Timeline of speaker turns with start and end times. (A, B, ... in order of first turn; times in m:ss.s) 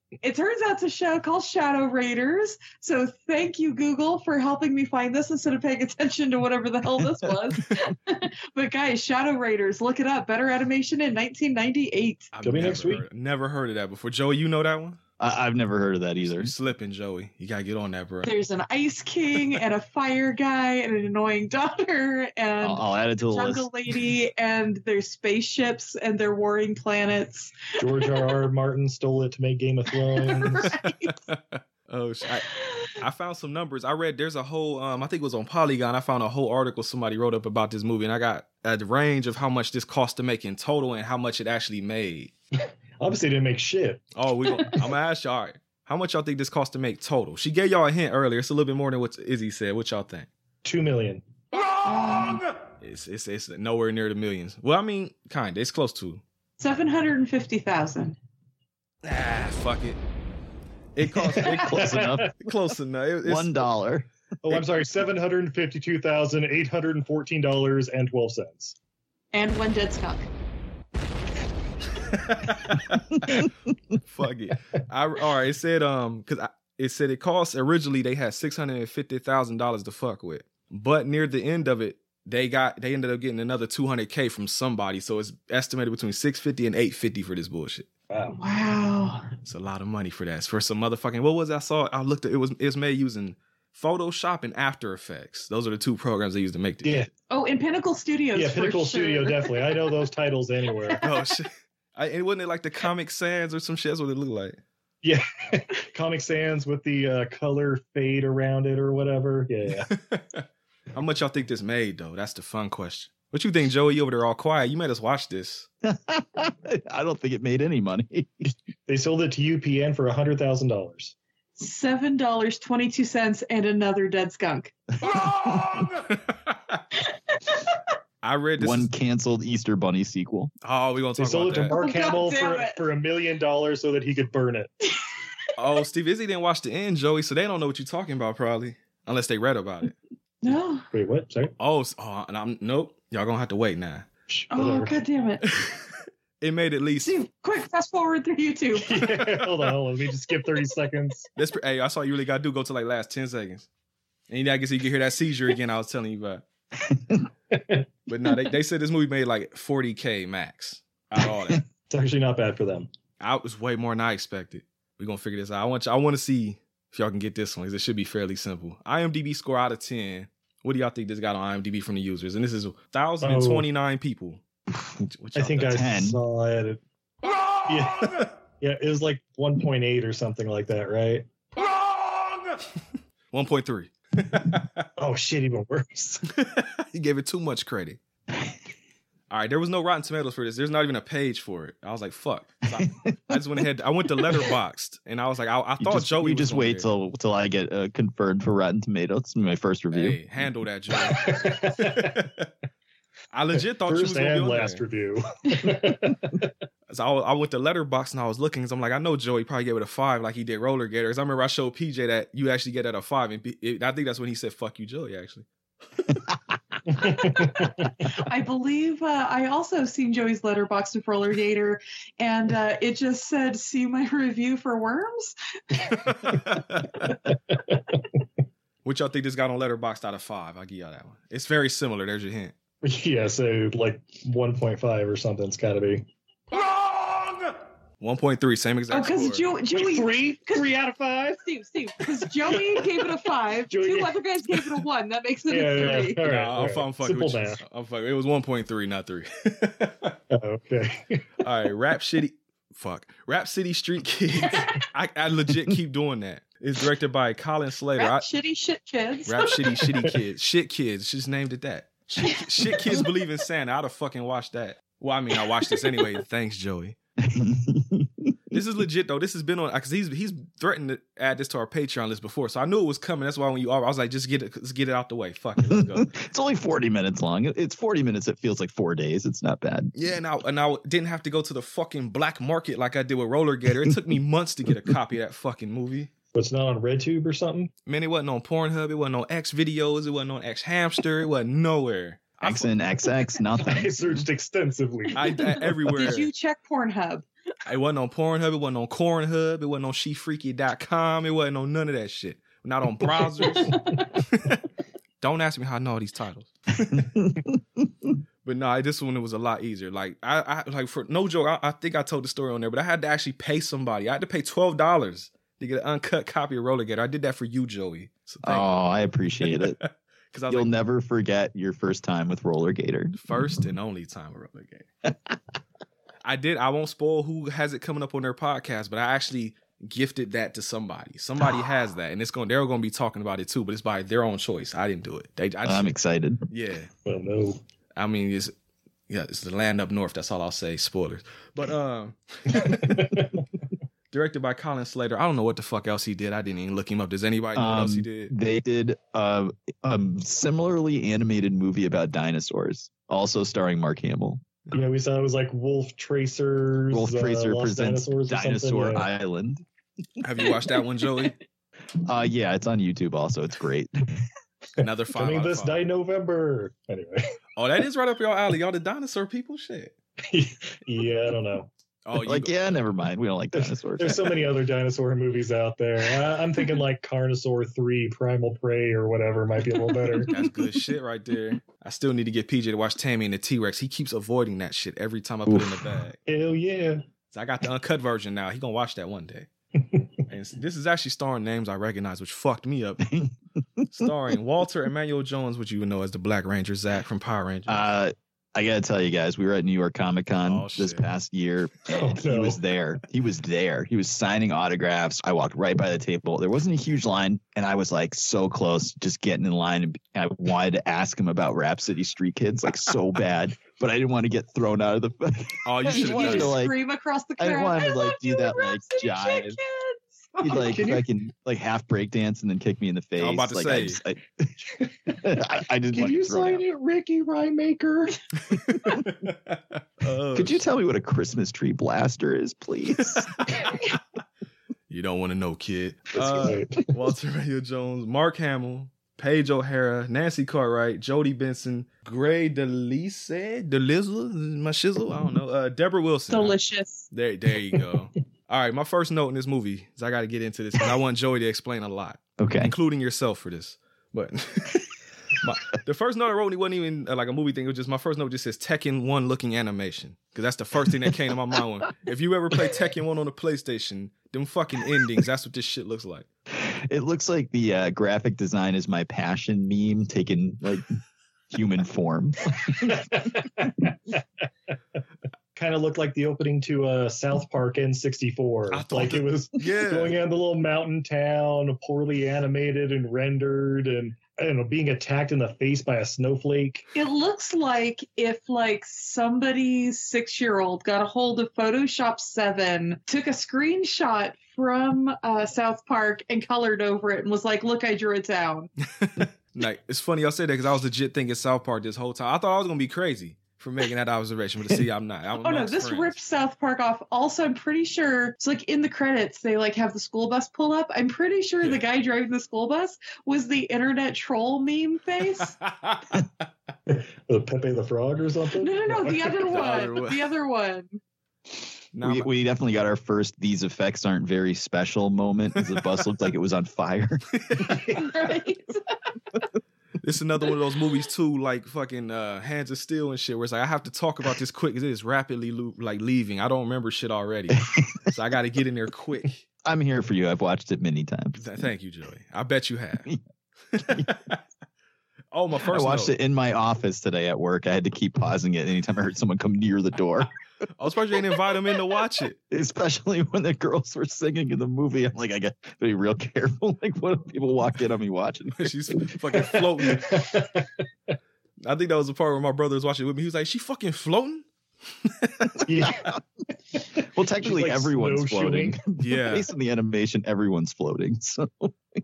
0:00.2-0:12.3 A
0:12.3-0:15.0 B
0:12.4-0:13.0 C
0:15.2-0:16.5 D
0:16.2-0:18.3 B
0:18.2-0:28.0 A
0:22.6-0:23.7 D
0:27.8-0:30.8 C
0:30.2-0:31.1 A
0:31.1-0:42.3 B
0:43.0-0:44.0 C
0:44.1-0:50.3 B
0:50.6-0:51.2 C
0:51.8-0:52.4 A
0:52.8-0:56.2 B
0:56.6-0:58.2 A
0:59.0-1:00.0 B
1:01.0-1:03.7 B
1:01.4-1:02.3 C
1:01.6-1:02.3 D
1:03.2-1:04.1 D
1:04.4-1:08.7 C
1:09.3-1:10.3 A
1:12.2-1:13.4 B
1:14.0-1:27.9 B
1:28.1-1:28.4 C
1:28.3-1:29.2 A
1:29.4-1:37.1 B
1:36.8-1:37.1 C
1:37.3-1:39.7 A
1:38.3-1:41.0 C
1:41.0-1:44.6 B
1:45.0-1:49.9 C
1:49.9-1:55.7 B
1:55.8-1:58.5 D
1:58.9-2:01.1 C
2:01.6-2:04.7 A
2:05.0-2:05.9 D
2:05.7-2:06.8 B
2:07.4-2:07.7 A
2:08.2-2:08.9 B
2:08.6-2:10.5 D
2:10.6-2:11.8 B
2:11.2-2:14.7 C
2:11.7-2:12.8 A
2:15.6-2:19.9 B
2:20.4-2:20.8 A
2:20.9-2:21.5 C
2:21.6-2:24.0 B
2:24.3-2:24.9 C
2:24.5-2:25.4 A
2:25.4-2:27.1 B
2:27.0-2:29.0 A
2:28.8-2:31.3 C
2:31.4-2:33.7 B
2:34.3-2:36.4 B
2:37.5-2:37.8 C
2:38.1-2:41.6 B
2:41.9-2:42.9 C
2:43.2-2:54.4 B
2:53.2-2:53.6 C
2:55.1-2:55.8 B
2:55.4-2:56.8 C
2:55.7-2:56.2 D
2:57.6-3:01.3 C
3:03.3-3:04.8 B
3:05.0-3:06.2 C
3:06.3-3:08.0 B
3:09.3-3:16.8 B
3:12.8-3:13.4 D
3:15.8-3:20.2 D
3:19.9-3:22.5 B
3:20.9-3:22.2 C
3:23.3-3:24.8 B
3:23.8-3:26.5 C
3:26.9-3:35.4 B
3:36.9-3:37.9 C
3:37.0-3:45.3 A
3:46.0-3:46.9 B
3:47.0-3:48.0 C
3:48.8-3:52.5 B
3:52.8-3:56.1 C
3:58.0-3:59.5 B
3:58.9-4:00.7 A
3:59.7-4:01.4 C
4:01.4-4:06.2 A
4:02.2-4:02.8 C
4:03.7-4:04.2 C
4:05.5-4:07.6 C
4:06.2-4:10.1 B
4:10.3-4:11.2 C
4:11.4-4:18.2 B
4:18.0-4:19.5 A
4:19.3-4:27.0 B
4:27.2-4:28.6 D
4:28.5-4:36.1 B
4:35.6-4:39.9 D
4:39.9-4:46.1 B
4:46.3-4:47.7 C
4:47.8-4:52.7 B
4:52.4-4:54.2 D
4:53.6-4:55.4 C
4:55.1-4:56.3 B
4:55.9-4:57.2 A
4:57.6-5:03.7 B
5:03.4-5:04.0 A
5:04.3-5:04.6 B
5:05.2-5:06.9 B
5:06.9-5:07.8 D
5:08.4-5:18.7 B
5:18.4-5:19.8 D
5:19.4-5:20.7 B
5:20.5-5:23.2 D
5:23.1-5:24.9 B
5:26.2-5:35.9 B
5:35.6-5:36.4 D
5:36.5-5:36.9 B
5:37.0-5:37.6 C
5:38.0-5:38.5 B
5:39.1-5:43.1 B
5:42.6-5:43.4 C
5:44.1-5:48.3 B
5:47.5-5:54.5 D
5:54.7-5:59.0 C
5:56.9-5:59.6 D
6:00.2-6:01.3 B
6:02.0-6:04.2 D
6:04.8-6:05.8 B
6:05.1-6:07.3 C
6:07.6-6:09.9 B
6:10.3-6:11.7 C
6:12.0-6:12.6 B
6:12.1-6:14.5 D
6:13.6-6:20.3 C
6:20.3-6:26.2 B
6:25.5-6:25.8 D
6:26.2-6:27.0 C
6:27.3-6:29.5 B
6:29.8-6:30.0 C
6:30.3-6:33.0 B
6:33.0-6:34.1 D
6:33.9-6:37.8 B
6:37.7-6:56.8 D
6:40.4-6:41.1 B
6:41.9-6:42.6 C
6:55.6-6:56.6 B
6:55.9-7:00.3 A
6:57.4-6:59.6 D
7:00.4-7:01.0 C
7:00.4-7:04.5 D
7:03.2-7:04.0 B
7:04.8-7:05.2 C
7:05.1-7:06.6 D
7:05.9-7:08.2 C
7:08.5-7:10.6 B
7:10.3-7:13.3 D
7:13.1-7:13.5 B
7:14.9-7:26.6 B
7:16.2-7:16.5 D
7:16.4-7:16.9 C
7:26.3-7:27.0 A
7:27.1-7:34.8 B
7:32.4-7:32.7 D
7:35.4-7:46.2 B
7:46.5-7:51.0 D
7:51.5-7:53.3 D
7:52.8-7:53.9 C
7:55.6-8:06.8 C
7:58.7-8:00.2 B
8:06.9-8:18.7 A
8:19.0-8:26.2 B
8:25.4-8:35.5 A
8:36.9-8:39.5 C
8:38.6-8:41.0 A
8:39.5-8:40.2 B
8:41.9-8:42.3 B
8:42.0-8:47.2 D
8:45.6-8:45.8 B
8:47.4-8:47.8 B
8:47.6-8:48.0 C
8:47.9-8:48.8 A
8:50.0-8:59.4 B
8:59.6-9:01.4 D
9:01.4-9:03.1 B
9:03.7-9:04.4 B
9:05.3-9:06.1 B
9:05.6-9:10.3 D
9:10.8-9:12.4 B
9:12.5-9:18.7 D
9:18.5-9:20.2 B
9:19.4-9:20.7 C
9:21.6-9:24.4 B
9:25.0-9:25.5 B
9:25.7-9:26.1 C
9:25.8-9:26.2 D
9:26.7-9:28.8 C
9:27.1-9:31.7 D
9:29.0-9:29.5 B